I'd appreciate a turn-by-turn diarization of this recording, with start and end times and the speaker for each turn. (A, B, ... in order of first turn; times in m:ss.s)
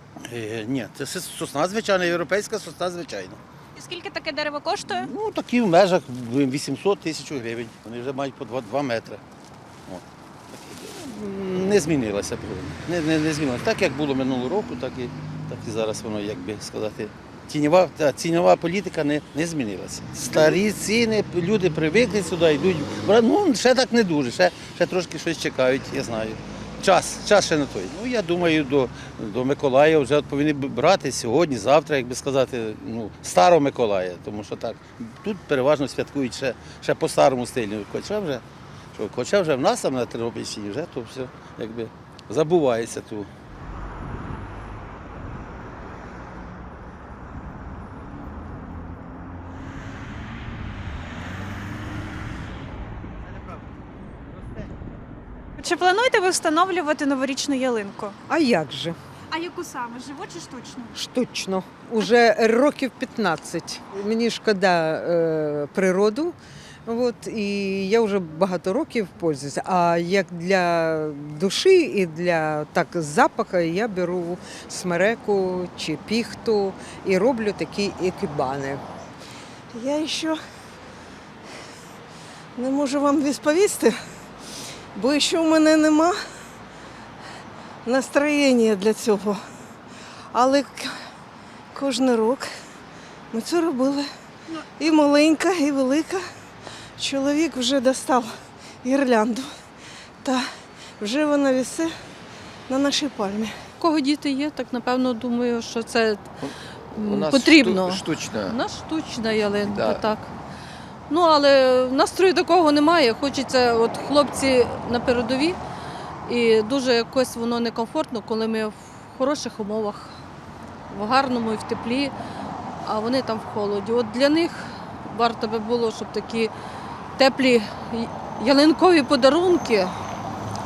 0:00.2-0:03.4 A
0:03.8-0:05.1 B
0:04.9-0:09.2 A
0:09.9-0:38.4 A
0:38.9-0:43.3 A
0:55.6-0:58.2 B
0:58.3-0:59.0 C
0:59.3-1:00.9 B
1:00.9-1:06.3 C
1:06.8-1:18.8 C
1:19.7-1:20.4 D
1:22.6-1:24.0 D
1:24.9-1:26.2 D
1:27.8-1:29.4 D
1:30.3-1:31.0 D
1:31.7-1:32.5 D
1:33.3-1:34.1 D
1:34.6-1:36.2 D
1:37.0-1:39.5 D
1:41.0-1:41.9 D
1:42.7-1:43.6 D
1:43.8-1:46.2 E
1:46.4-1:48.6 F
1:47.0-1:47.9 E
1:48.6-1:50.2 E
1:49.3-1:50.1 F
1:51.1-1:55.6 E
1:56.3-2:00.1 E
2:00.9-2:02.1 E
2:02.9-2:04.5 E
2:05.1-2:06.5 E
2:07.2-2:09.9 E